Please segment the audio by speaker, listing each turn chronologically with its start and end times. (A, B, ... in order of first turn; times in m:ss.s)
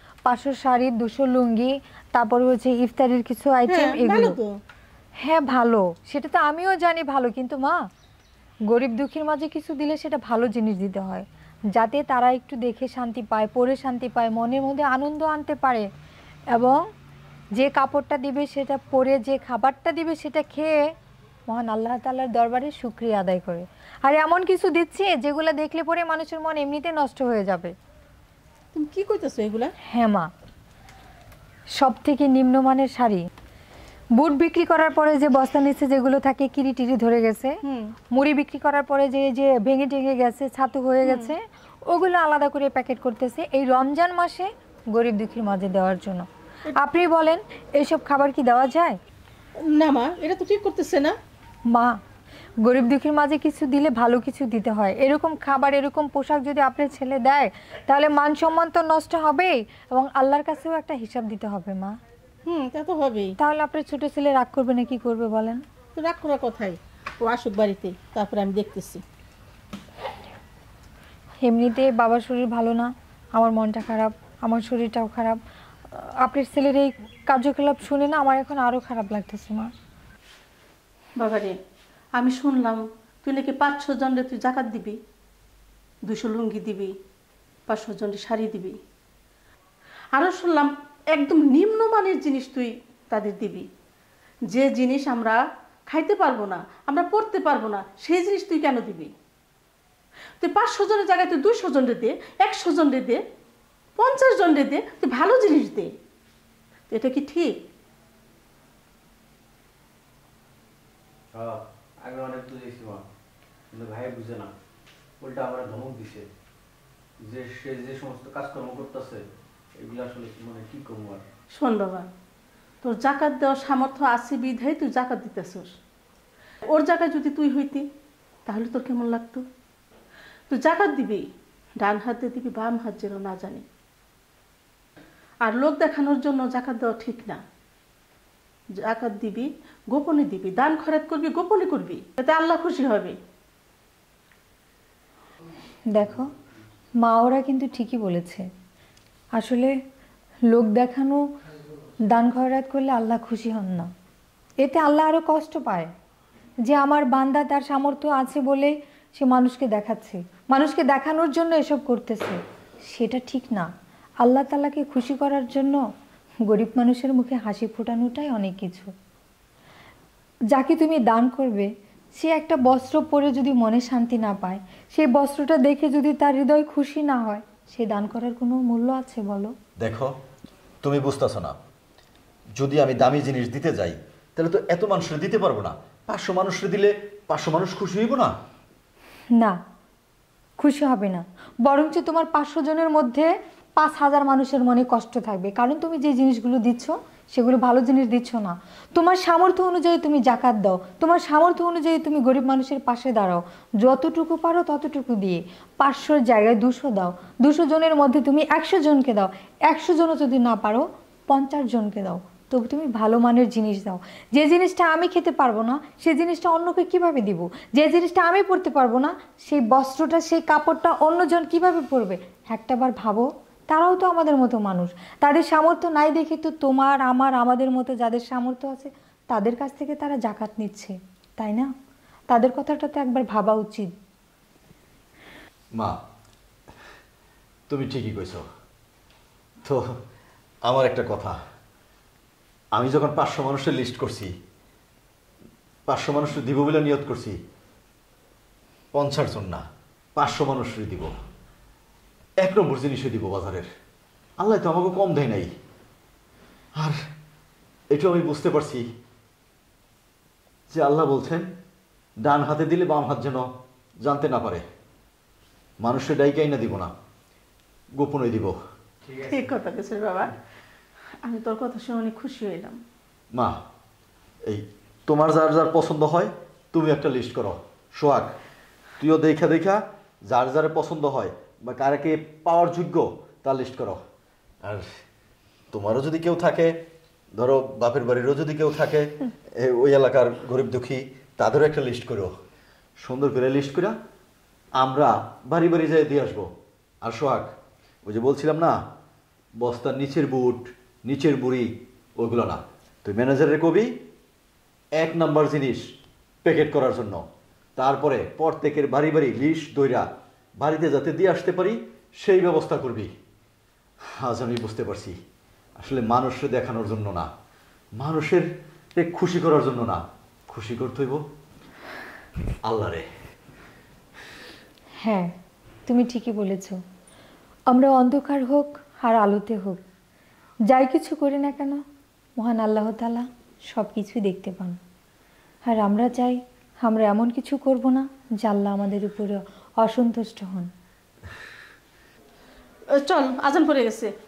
0:00.2-0:04.4 A
0:03.7-0:04.5 B
0:05.2-0:07.8 A
0:08.7-0:15.8 A
0:16.5-0:16.8 A
0:17.6-0:20.8 A
0:21.5-0:27.7 A
0:28.7-0:29.7 B
0:29.9-0:30.3 A
0:31.8-0:33.3 A
0:34.2-0:37.6 A
0:37.6-0:37.9 B
0:38.1-0:49.0 A
0:41.0-0:41.3 B
0:49.7-0:51.1 B
0:51.7-0:52.0 A
0:52.6-1:01.9 A
1:02.4-1:03.3 B
1:03.4-1:05.6 A
1:06.0-1:09.0 B
1:11.4-1:15.4 A
1:15.9-1:19.7 A
1:21.2-1:21.5 B
1:22.2-1:25.0 B
1:26.0-1:26.9 B
1:27.7-1:28.8 B
1:30.1-1:33.7 B
1:34.5-1:39.1 B
1:40.4-1:43.2 B
1:44.0-1:45.9 B
1:46.9-1:47.6 B
1:51.3-1:53.0 C
1:53.7-1:54.5 C
1:55.2-1:56.3 C
1:57.2-2:01.2 C
2:01.5-2:02.1 B
2:02.8-2:05.7 B
2:06.7-2:07.8 B
2:08.5-2:09.4 B
2:10.5-2:11.2 B
2:11.8-2:13.6 B
2:15.4-2:17.4 B
2:18.8-2:23.2 B
2:25.9-2:26.3 A
2:27.0-2:28.4 A
2:29.3-2:29.7 A
2:30.5-2:31.2 A
2:32.1-2:33.9 A
2:34.6-2:35.9 A
2:36.6-2:43.7 A
2:44.2-2:45.8 A
2:46.5-2:48.9 A
2:50.5-2:59.5 A
2:59.8-3:00.1 D
3:00.8-3:01.6 D
3:02.5-3:08.3 D
3:10.6-3:51.7 A
3:52.3-3:53.9 A
3:57.7-3:58.4 D
4:00.6-4:01.4 D
4:02.7-4:04.3 D
4:05.9-4:07.4 D
4:08.9-4:09.6 D
4:10.2-4:11.1 D
4:12.4-4:13.7 D
4:14.4-4:15.5 D
4:17.9-4:18.8 D
4:20.7-4:21.5 D
4:22.2-4:23.5 D
4:24.0-4:24.6 D
4:25.8-4:26.9 D
4:28.0-4:28.6 D
4:29.2-4:30.3 B
4:31.2-4:32.8 B
4:34.4-4:38.4 D
4:39.0-4:44.0 D
4:45.7-4:46.7 D
4:47.3-4:52.3 D
4:53.0-4:53.9 D
4:54.8-4:56.5 D
4:57.0-4:57.5 D
4:58.0-4:58.8 D
4:59.6-5:03.9 D
5:04.9-5:05.9 D
5:06.4-5:07.2 D
5:07.8-5:10.1 D
5:10.6-5:13.1 D
5:14.2-5:15.2 D
5:15.8-5:17.3 D
5:18.0-5:21.2 D
5:22.6-5:23.0 D
5:25.0-5:25.3 A
5:25.9-5:26.8 A
5:27.7-5:29.8 A
5:30.7-5:31.8 A
5:32.4-5:34.8 A
5:35.6-5:40.7 A
5:42.9-5:44.1 B